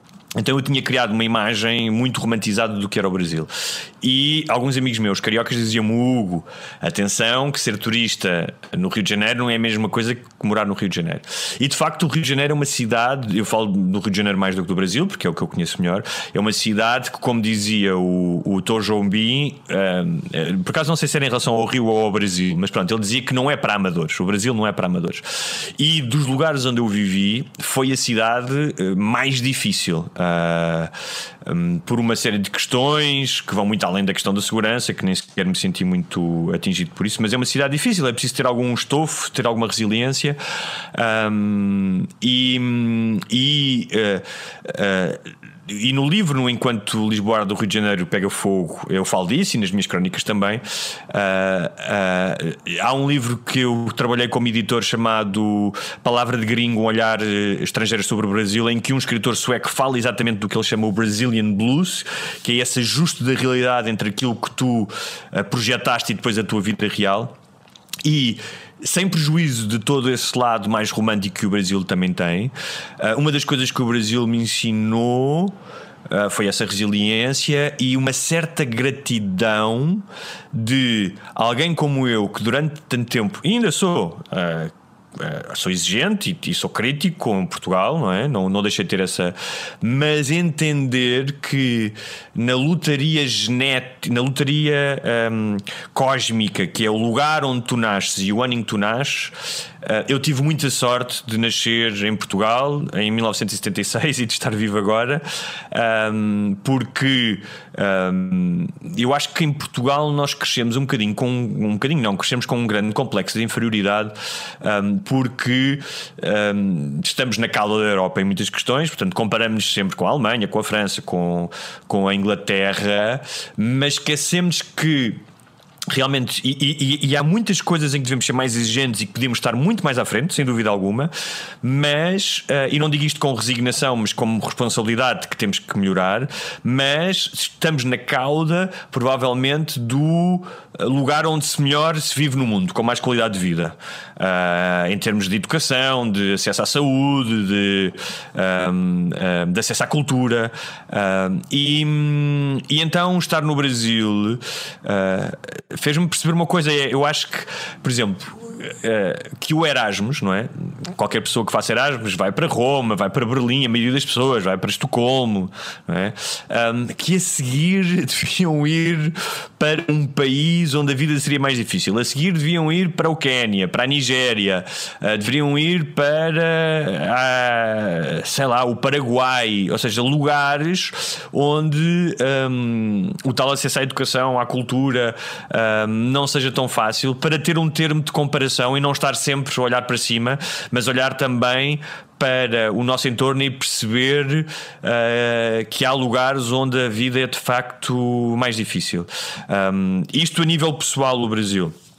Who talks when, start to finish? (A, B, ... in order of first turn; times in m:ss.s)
0:00.4-0:30.9 A
0:31.4-0:40.4 A
0:40.9-1:07.4 A
1:08.0-1:15.6 A
1:16.1-2:05.2 A
2:05.9-3:21.8 A